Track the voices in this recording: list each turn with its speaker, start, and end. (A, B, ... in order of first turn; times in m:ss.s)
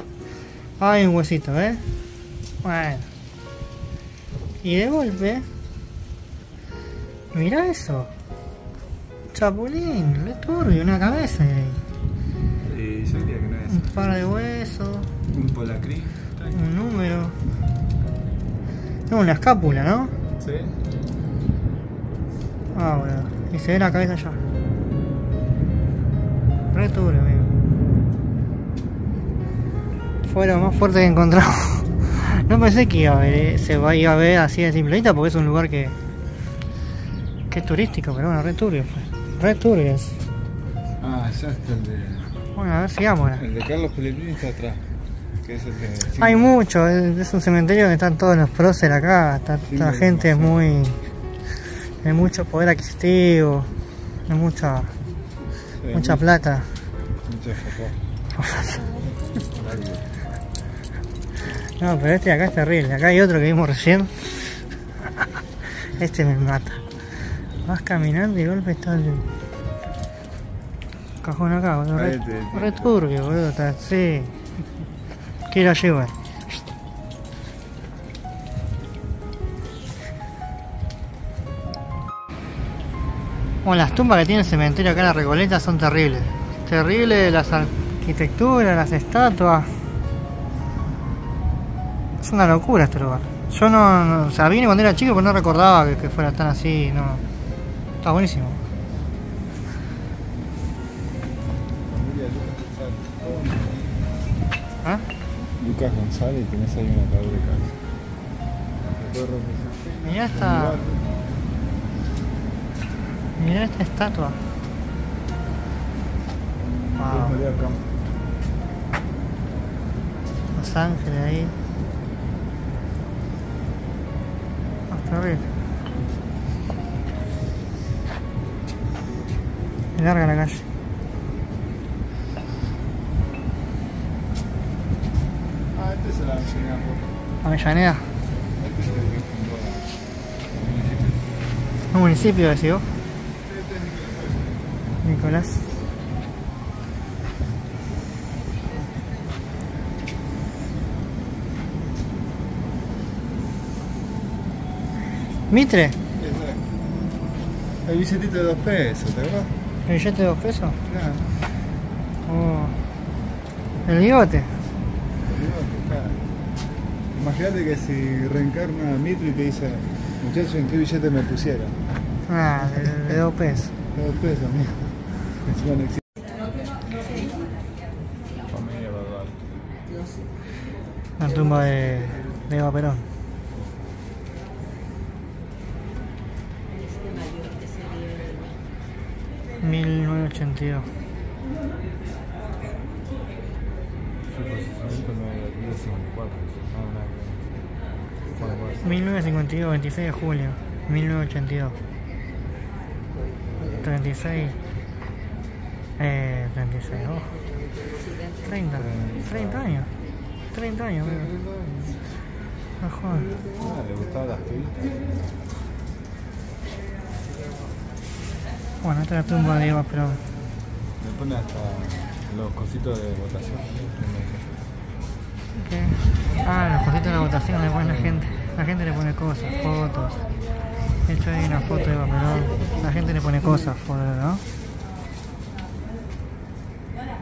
0:00.8-0:01.8 A
0:02.6-0:03.1 A
0:04.6-0:05.5 A
0:07.3-0:08.1 A
0:09.3-0:11.8 A
0:12.6-0:14.2 B
0:13.7-0:15.1 A
0:15.3-0:16.6 B
0:16.5-0:17.4 A
0:19.1-0:20.2 A
0:20.4-0:20.8 B
0:22.7-0:24.4 A
0:26.7-0:27.5 A
0:30.3-0:36.0 A
0:37.5-0:40.2 A
0:41.0-0:42.4 B
0:42.6-0:43.4 A
0:43.4-0:44.9 B
0:45.4-0:46.5 B
0:46.2-0:51.0 A
0:49.7-0:50.6 B
0:52.0-0:53.7 A
0:54.3-0:54.9 A
0:55.8-0:56.3 B
0:55.9-0:56.7 A
0:57.2-0:58.0 B
0:58.3-0:58.9 A
0:59.4-1:00.1 B
1:01.8-1:04.6 A
1:05.6-1:06.8 A
1:07.6-1:09.2 A
1:11.2-1:14.4 A
1:11.9-1:13.0 B
1:15.5-1:16.2 A
1:23.6-1:29.8 A
1:32.2-1:37.2 A
1:38.0-1:38.6 A
1:41.9-1:44.0 B
1:45.6-1:47.8 B
1:48.8-1:51.1 B
1:50.0-1:50.8 A
1:53.4-1:54.4 A
1:56.6-1:58.0 B
1:57.0-1:57.4 A
2:00.5-2:01.6 A
2:04.9-2:05.5 A
2:10.0-2:10.6 A
2:15.7-2:17.2 B
2:17.4-2:18.1 A
2:18.6-2:19.9 B
2:20.5-2:21.3 B
2:21.9-2:22.9 A
2:23.4-2:24.6 B
2:25.0-2:25.7 A
2:35.5-2:36.0 A
2:36.2-2:36.7 B
2:37.8-2:39.6 B
2:39.9-2:40.8 A
2:40.9-2:41.4 B
2:42.3-2:42.8 A
2:43.9-2:44.6 A
2:45.2-2:46.3 B
2:47.1-2:51.8 B
2:52.3-2:53.7 A
2:53.9-2:56.1 B
2:58.5-2:59.7 B
3:01.2-3:03.1 A
3:09.6-3:10.9 A
3:14.3-3:17.5 B
3:18.3-3:19.2 B
3:18.8-3:21.8 A
3:23.5-3:23.9 B
3:23.8-3:24.6 A
3:26.0-3:27.4 A
3:28.4-3:29.9 A
3:28.6-3:29.9 B
3:30.5-3:31.3 A
3:31.0-3:32.2 B
3:32.8-3:33.3 A
3:33.5-3:35.4 B
3:38.8-3:40.2 A
3:41.0-3:44.7 B
3:45.6-3:50.2 A
3:47.8-3:48.3 B
3:51.0-3:54.4 A